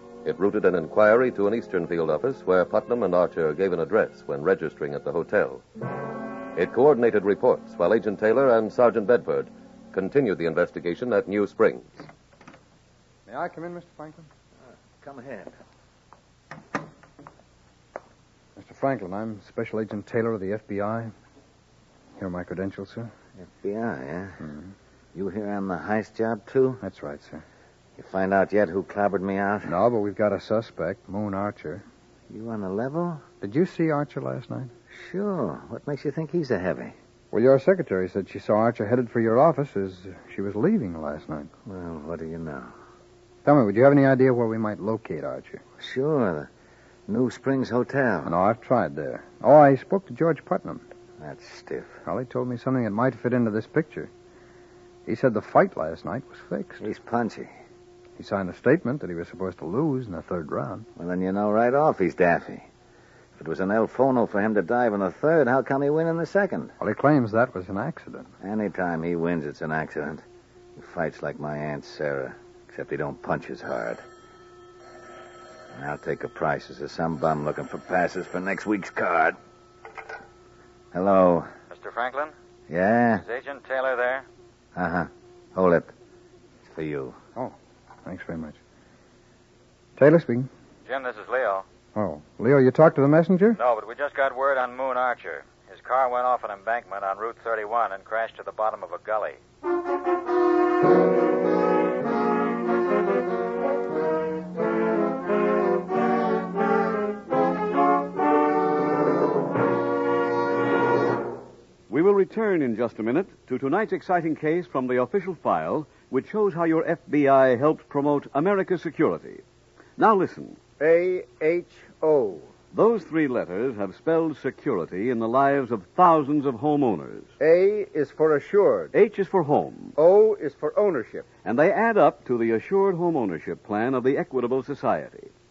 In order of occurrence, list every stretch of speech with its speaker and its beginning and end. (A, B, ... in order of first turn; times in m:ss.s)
0:00.2-0:05.6 A
0:06.6-0:12.1 A
0:13.3-0:14.3 B
0:15.0-0:15.5 C
0:18.6-0:21.1 B
0:22.2-0:23.1 B
0:23.4-0:24.4 C
0:24.4-0:24.7 B
0:25.1-0:26.8 C
0:26.8-0:27.4 B
0:28.0-0:29.7 C
0:29.6-0:31.8 B
0:32.3-0:33.2 C
0:33.4-0:34.7 B
0:34.9-0:36.9 C
0:37.3-0:41.5 B
0:41.6-0:42.7 C
0:43.4-0:45.6 B
0:45.8-0:46.5 C
0:47.1-0:48.3 C
0:48.2-0:50.8 B
0:51.2-0:52.0 C
0:52.0-0:54.1 B
0:55.0-0:56.8 B
0:56.8-0:57.5 C
0:58.2-1:00.8 B
1:01.0-1:02.7 C
1:03.4-1:06.7 C
1:06.8-1:08.3 B
1:08.4-1:10.2 C
1:10.8-1:14.0 C
1:15.7-1:19.4 C
1:20.9-1:21.5 C
1:21.7-1:22.3 D
1:22.7-1:23.2 C
1:23.2-1:24.2 D
1:24.7-1:25.9 C
1:26.6-1:27.2 C
1:28.0-1:28.6 B
1:30.0-1:30.5 B
1:30.8-1:31.6 D
1:31.9-1:33.6 B
1:33.5-1:39.4 D
1:51.9-1:59.4 E
2:00.0-2:00.6 E
2:00.8-2:02.5 F
2:02.7-2:07.3 E
2:07.4-2:08.9 F
2:08.9-2:09.9 E
2:10.0-2:11.3 F
2:11.4-2:15.3 E